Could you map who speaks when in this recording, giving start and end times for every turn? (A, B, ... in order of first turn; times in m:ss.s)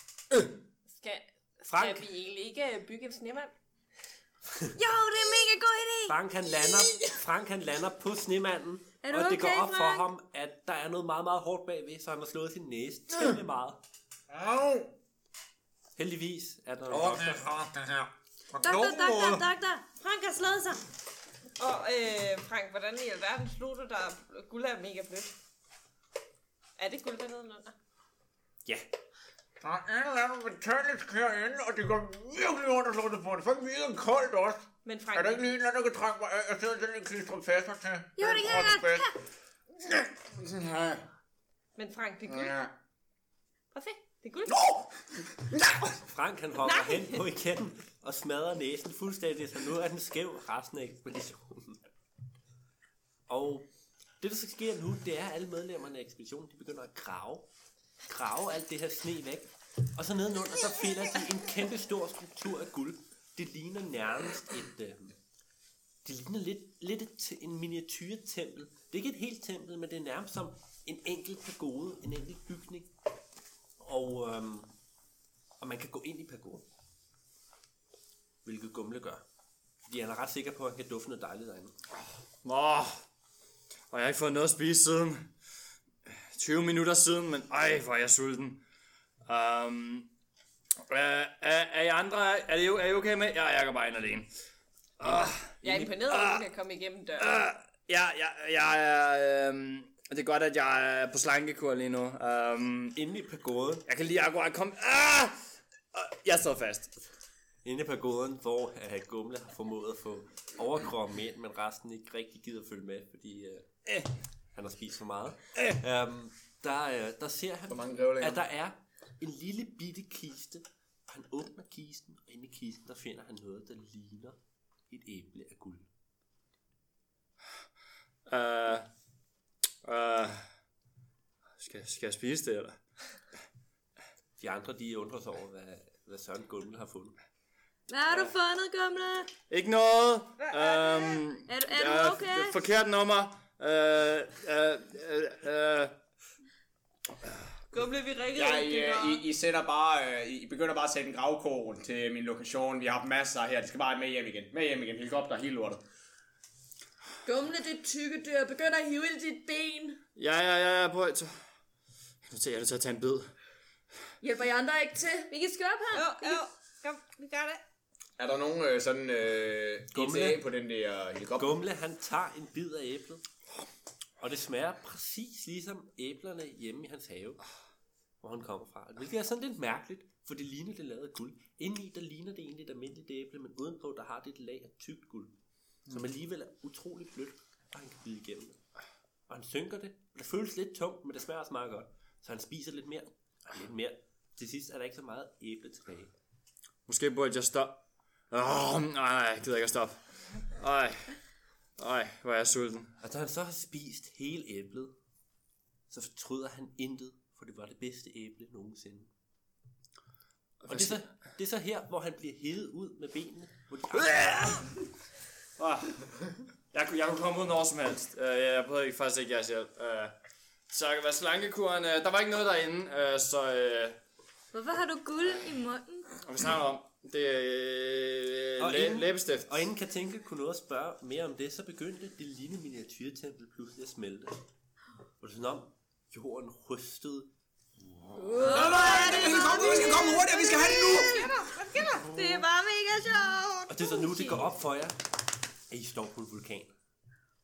0:00.9-0:03.5 A
0:01.7-0:02.1 B
0:04.8-0:07.1 C
0:06.1-0:13.8 B
0:09.0-0:10.1 C
0:14.3-0:15.0 D
0:16.0-0:17.4 B
0:16.9-0:19.4 D
0:18.6-0:20.8 C
0:21.6-0:25.3 A
0:26.8-0:27.7 A
0:29.6-0:39.1 D
0:34.8-0:35.5 A
0:38.2-0:39.2 C
0:39.8-0:41.0 D
0:41.8-0:42.6 A
0:42.3-0:42.7 D
0:43.7-0:44.6 A
0:44.4-0:46.0 D
0:46.0-0:51.8 B
0:46.6-0:47.2 A
0:53.3-0:53.6 B
0:54.2-0:57.5 B
0:58.0-1:05.2 B
1:06.0-1:12.9 B
1:13.8-1:14.7 B
1:15.6-1:16.6 B
1:18.4-1:19.2 B
1:19.8-1:21.7 B
1:22.4-1:23.0 E
1:23.9-1:25.3 E
1:26.3-1:28.6 E
1:29.2-1:30.1 E
1:30.9-1:34.3 E
1:35.0-1:36.4 E
1:35.6-1:37.4 A
1:37.2-1:43.0 E
1:42.9-1:43.9 B
1:43.9-1:47.0 E
1:47.6-1:53.7 B
1:54.5-2:04.4 B
1:57.7-1:58.4 D
2:04.9-2:05.9 B
2:08.3-2:08.9 E
2:09.8-2:10.4 E
2:11.6-2:12.8 E
2:14.4-2:17.2 B
2:17.9-2:19.3 C
2:19.5-2:26.0 E
2:20.4-2:21.2 A
2:21.5-2:22.6 C
2:27.7-2:29.2 A
2:28.3-2:35.8 D
2:37.2-2:40.0 F
2:40.2-2:41.3 E
2:42.3-2:43.3 E
2:44.2-2:45.3 F
2:45.3-2:46.4 C
2:45.9-2:47.6 A
2:48.2-2:51.6 D
2:49.9-2:50.4 B
2:51.4-2:53.2 B
2:54.2-2:57.4 B
2:58.2-3:05.3 B
3:05.9-3:08.6 B
3:09.3-3:16.1 B
3:16.9-3:20.0 E
3:20.5-3:21.1 E
3:21.8-3:22.9 E
3:23.0-3:24.9 B
3:25.9-3:29.1 B
3:30.6-3:31.0 E
3:30.7-3:34.7 B
3:34.1-3:34.6 E
3:35.6-3:36.0 E
3:36.7-3:40.1 E
3:40.7-3:44.0 E
3:44.5-3:46.1 C
3:46.2-3:49.6 E
3:48.6-3:54.4 B
3:55.2-3:57.3 B
3:57.8-3:58.6 B
3:58.2-4:01.4 C
3:58.4-4:01.3 D
3:58.5-3:59.4 F
4:00.9-4:02.1 A
4:02.0-4:04.4 C
4:03.7-4:05.1 B
4:05.7-4:06.7 B